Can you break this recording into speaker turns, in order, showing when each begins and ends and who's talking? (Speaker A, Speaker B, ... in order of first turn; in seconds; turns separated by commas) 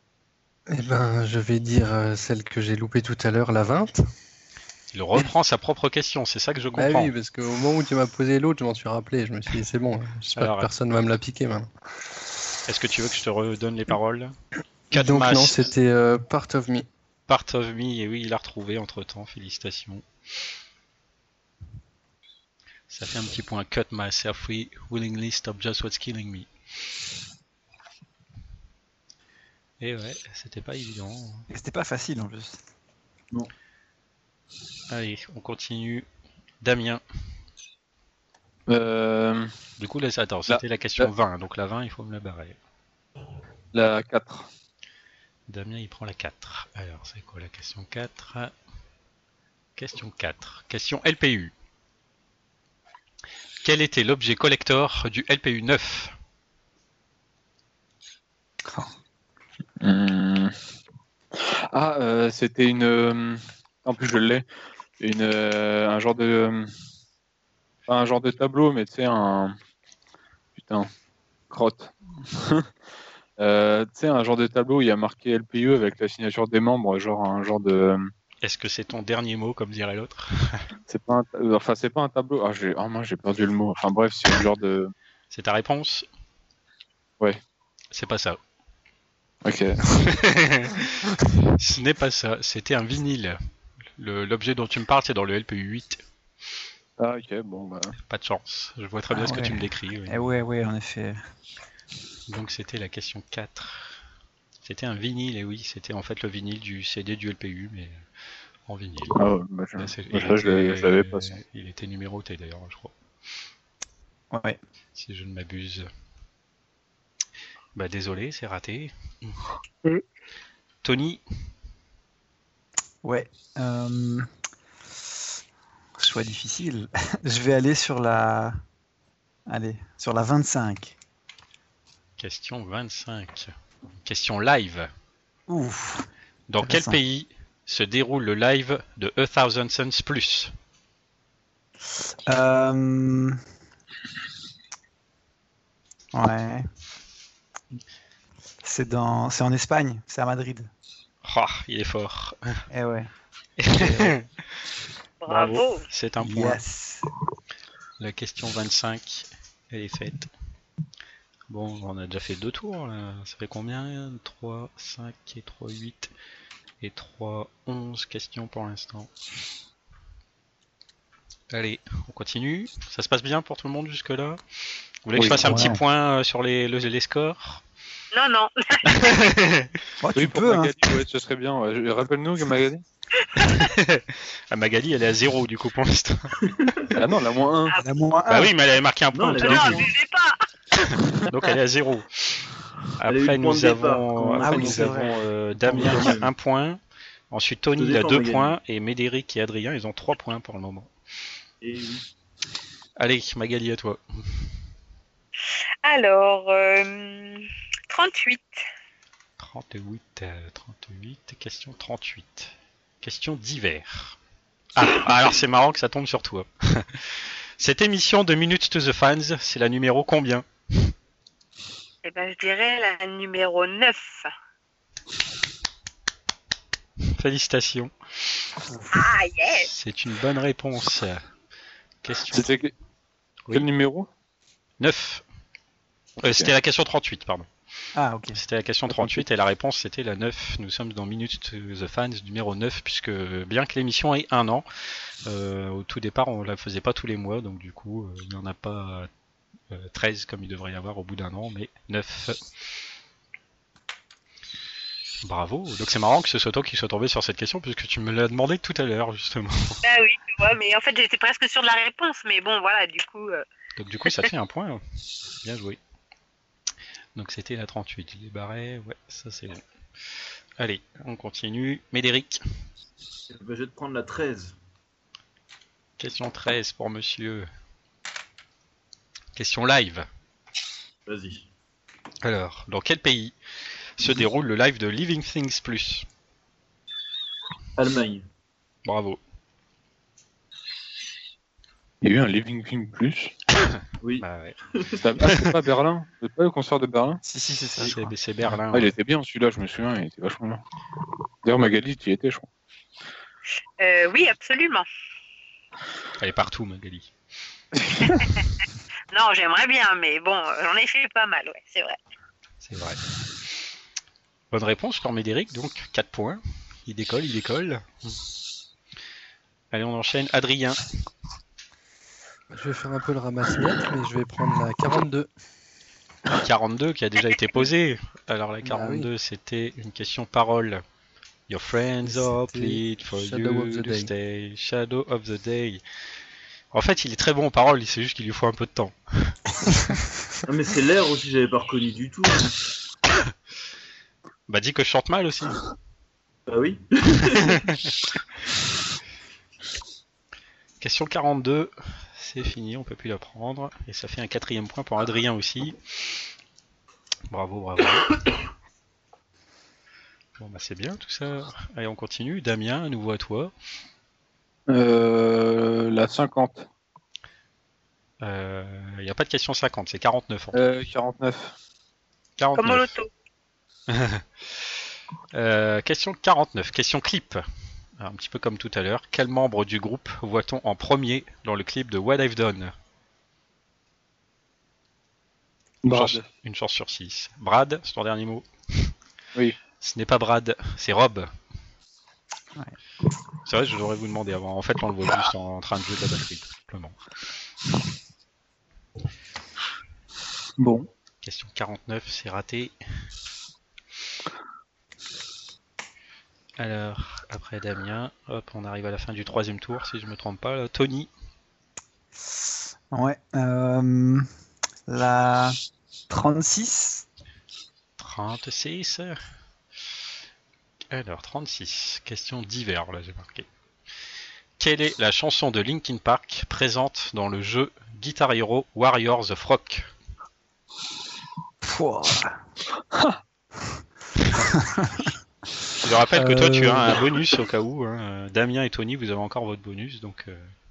Speaker A: 0.7-4.0, Speaker B: 4.9-7.1, Speaker A: 6.7-11.7, Speaker B: 10.3-10.7, Speaker B: 12.7-14.3, Speaker B: 14.9-15.7, Speaker A: 14.9-16.9, Speaker B: 17.3-20.1, Speaker B: 22.9-26.5, Speaker B: 29.8-31.5, Speaker C: 31.5-32.6, Speaker B: 34.9-36.0, Speaker B: 36.6-37.0, Speaker D: 38.7-39.5, Speaker B: 39.8-42.6, Speaker D: 40.5-41.1, Speaker D: 43.7-44.5, Speaker B: 45.5-48.5, Speaker B: 49.8-51.5, Speaker B: 53.6-56.1, Speaker D: 59.8-60.5, Speaker D: 61.3-64.4, Speaker D: 65.0-66.7, Speaker D: 67.9-69.5, Speaker D: 70.5-70.9, Speaker D: 71.5-72.7, Speaker D: 73.4-78.1, Speaker B: 78.4-80.6, Speaker D: 80.9-84.9, Speaker B: 85.3-86.0, Speaker B: 87.9-88.4, Speaker D: 89.4-89.8, Speaker B: 89.9-93.4, Speaker B: 94.0-96.0, Speaker D: 97.0-97.9, Speaker B: 98.0-100.2, Speaker C: 99.1-101.2, Speaker B: 102.3-104.0, Speaker B: 104.6-108.0, Speaker B: 108.7-109.2, Speaker D: 109.1-111.3, Speaker B: 109.8-112.9, Speaker C: 114.3-114.6, Speaker B: 114.9-115.9, Speaker B: 117.7-119.4, Speaker B: 120.8-121.2, Speaker C: 123.0-124.3, Speaker C: 126.0-128.6, Speaker C: 129.5-130.9, Speaker B: 132.2-133.5, Speaker B: 134.0-134.9, Speaker C: 135.5-136.1, Speaker B: 136.5-140.5, Speaker C: 136.6-137.0, Speaker C: 142.2-143.4, Speaker C: 146.1-146.7, Speaker C: 148.6-150.7, Speaker B: 151.2-152.6, Speaker C: 152.7-153.1, Speaker B: 153.6-154.7, Speaker C: 153.7-154.2, Speaker E: 155.2-155.9, Speaker B: 155.3-156.6, Speaker C: 156.2-157.1, Speaker B: 158.0-160.3, Speaker B: 161.5-166.1, Speaker B: 166.8-169.1, Speaker B: 171.5-174.4, Speaker B: 175.0-177.6, Speaker D: 175.1-175.7, Speaker C: 175.4-175.8, Speaker E: 178.1-179.2, Speaker B: 178.9-179.8, Speaker C: 180.0-180.8, Speaker D: 180.1-182.8, Speaker E: 183.2-183.7, Speaker B: 183.4-186.7, Speaker F: 186.4-186.9, Speaker D: 186.9-187.7, Speaker C: 187.8-188.5, Speaker B: 188.3-189.9, Speaker F: 189.1-189.9, Speaker E: 189.4-190.4, Speaker B: 190.8-192.4, Speaker B: 193.0-196.8, Speaker F: 193.1-196.3, Speaker C: 194.4-195.2, Speaker B: 197.3-200.9, Speaker F: 197.8-198.5, Speaker F: 201.6-202.0, Speaker B: 203.0-204.5, Speaker E: 205.8-208.6, Speaker B: 209.4-214.2, Speaker B: 214.8-220.9, Speaker E: 222.0-224.3, Speaker B: 227.1-228.5, Speaker E: 228.9-229.7, Speaker B: 229.6-231.2, Speaker B: 232.0-232.5, Speaker D: 232.3-232.7, Speaker D: 233.5-234.1, Speaker B: 234.8-235.2, Speaker B: 236.2-237.5, Speaker D: 236.2-236.5, Speaker C: 237.9-238.4, Speaker B: 238.3-249.1, Speaker D: 238.9-239.2, Speaker B: 249.7-252.4, Speaker B: 255.2-259.8, Speaker E: 259.8-263.4, Speaker B: 263.8-264.8, Speaker B: 265.4-265.8, Speaker B: 267.1-269.6, Speaker B: 270.6-272.4, Speaker F: 273.3-274.6, Speaker B: 276.0-277.5, Speaker B: 279.3-280.1, Speaker F: 281.1-281.5, Speaker B: 282.2-283.3, Speaker B: 283.9-286.1, Speaker F: 287.8-288.2, Speaker B: 288.8-289.2, Speaker D: 292.0-293.3, Speaker B: 293.6-294.6, Speaker F: 294.0-295.0, Speaker D: 294.9-297.2, Speaker B: 295.2-295.5, Speaker C: 297.2-298.1, Speaker B: 297.8-298.9, Speaker D: 298.7-300.6, Speaker D: 301.4-302.5, Speaker E: 303.8-304.9, Speaker B: 306.2-307.1, Speaker E: 308.0-308.4, Speaker E: 309.1-312.0, Speaker B: 312.6-313.0, Speaker B: 314.5-318.2, Speaker B: 319.7-320.8, Speaker A: 322.5-325.3, Speaker B: 326.3-330.8, Speaker A: 328.6-329.1, Speaker B: 331.5-335.8, Speaker A: 332.0-334.1, Speaker B: 336.7-339.4, Speaker F: 340.5-342.6, Speaker B: 344.5-345.6, Speaker F: 346.5-347.6, Speaker B: 347.2-347.9, Speaker B: 350.8-355.8, Speaker B: 357.3-358.2, Speaker B: 360.4-363.5, Speaker D: 364.7-366.7, Speaker B: 368.2-370.6, Speaker D: 370.5-371.5, Speaker B: 372.4-372.9, Speaker E: 372.6-373.1, Speaker B: 373.9-374.8, Speaker B: 375.3-377.4, Speaker B: 378.0-382.7, Speaker D: 385.8-386.3, Speaker B: 385.9-388.9, Speaker B: 389.8-391.3, Speaker B: 393.4-397.0, Speaker D: 400.6-400.9, Speaker B: 401.2-402.7, Speaker B: 406.6-411.1, Speaker C: 412.9-414.3, Speaker C: 414.9-415.6, Speaker C: 416.1-417.0, Speaker B: 418.0-419.2, Speaker B: 420.9-423.5, Speaker B: 424.6-429.9, Speaker C: 431.6-432.4, Speaker D: 432.9-433.2, Speaker B: 434.2-434.5, Speaker C: 434.5-435.1, Speaker B: 435.8-440.5, Speaker C: 436.1-437.0